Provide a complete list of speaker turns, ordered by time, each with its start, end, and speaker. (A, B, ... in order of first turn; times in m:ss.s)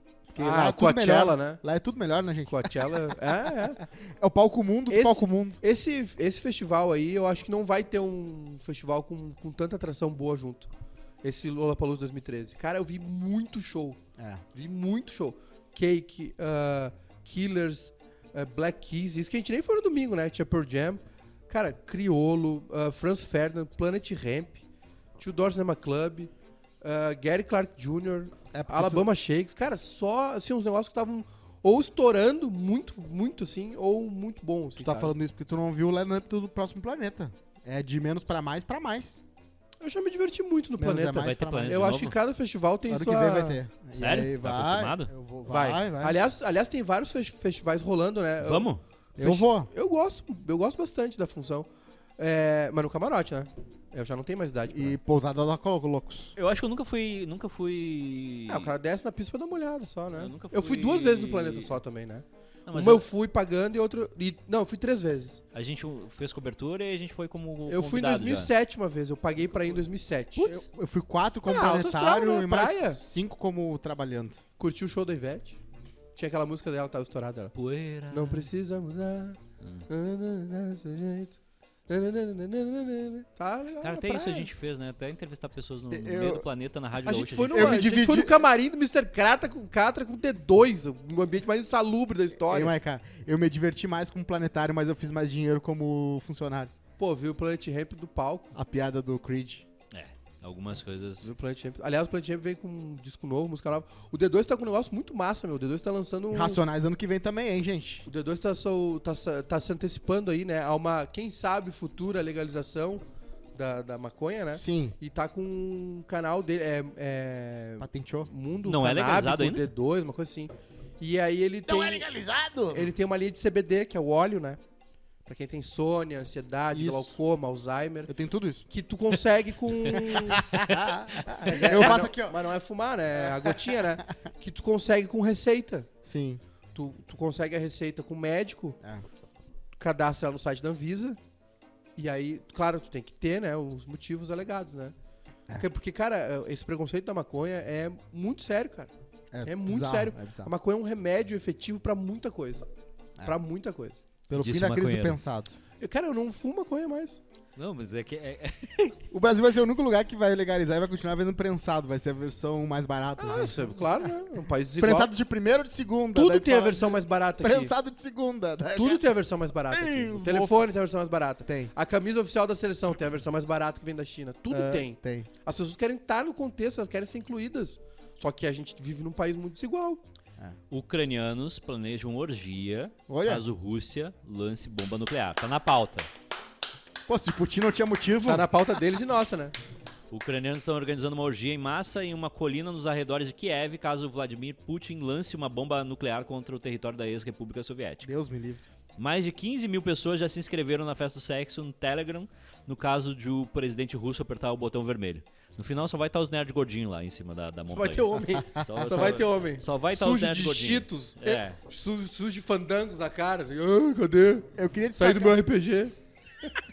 0:00.3-0:05.6 A
0:00.4-0:01.6 B
0:02.5-0:03.8 B
0:04.9-0:10.7 B
0:11.2-0:14.0 B
0:14.2-0:14.4 A
0:14.6-0:24.6 B
0:25.2-0:26.3 B
0:26.8-0:35.1 B
0:28.5-0:29.1 A
0:34.8-0:39.2 A
0:39.8-0:43.6 B
0:40.8-0:42.0 A
0:41.2-0:42.2 C
0:42.9-0:46.2 A
0:44.0-0:45.1 C
0:45.5-0:51.7 B
0:48.4-0:48.8 C
0:49.2-0:49.7 A
0:52.2-0:55.0 B
0:54.7-0:56.3 A
0:56.4-0:58.7 C
0:58.5-1:05.4 B
1:00.1-1:01.7 C
1:02.7-1:03.1 C
1:05.5-1:08.5 C
1:07.7-1:10.5 B
1:10.4-1:10.6 C
1:10.4-1:14.4 A
1:11.5-1:13.0 B
1:14.6-1:15.6 B
1:16.2-1:17.5 B
1:17.6-1:18.5 C
1:18.1-1:19.4 B
1:19.9-1:21.4 B
1:21.9-1:24.5 B
1:23.8-1:27.8 C
1:25.9-1:26.5 A
1:27.1-1:32.7 B
1:27.5-1:28.4 A
1:32.5-1:36.7 A
1:37.0-1:38.5 B
1:38.6-1:39.6 A
1:39.9-1:41.3 C
1:41.2-1:46.6 B
1:46.3-1:48.1 A
1:48.1-1:53.0 B
1:53.6-2:02.1 B
1:54.6-1:55.0 A
1:57.8-1:58.3 A
1:58.6-1:59.7 C
2:01.7-2:02.9 A
2:02.7-2:04.6 B
2:05.3-2:08.1 B
2:06.7-2:07.2 A
2:08.1-2:08.7 A
2:08.7-2:10.4 B
2:09.9-2:12.4 A
2:11.4-2:15.9 B
2:13.2-2:14.0 A
2:16.0-2:16.4 A
2:16.8-2:18.8 B
2:19.8-2:21.2 B
2:22.0-2:24.9 B
2:25.6-2:28.9 B
2:29.3-2:30.5 A
2:29.4-2:32.6 B
2:33.2-2:34.0 B
2:34.3-2:35.6 A
2:34.3-2:35.2 C
2:35.8-2:37.2 B
2:37.6-2:39.0 C
2:39.1-2:44.1 A
2:43.2-2:45.1 B
2:44.8-2:49.0 A
2:46.2-2:47.7 B
2:48.7-3:00.0 B
2:49.7-2:50.7 A
2:51.5-2:51.7 A
2:54.5-2:55.3 A
3:00.7-3:06.1 C
3:03.1-3:03.4 A
3:07.1-3:08.5 A
3:08.2-3:09.5 B
3:10.1-3:18.1 C
3:18.0-3:18.6 A
3:19.0-3:31.6 C
3:27.7-3:35.9 B
3:28.8-3:29.1 A
3:34.6-3:35.4 A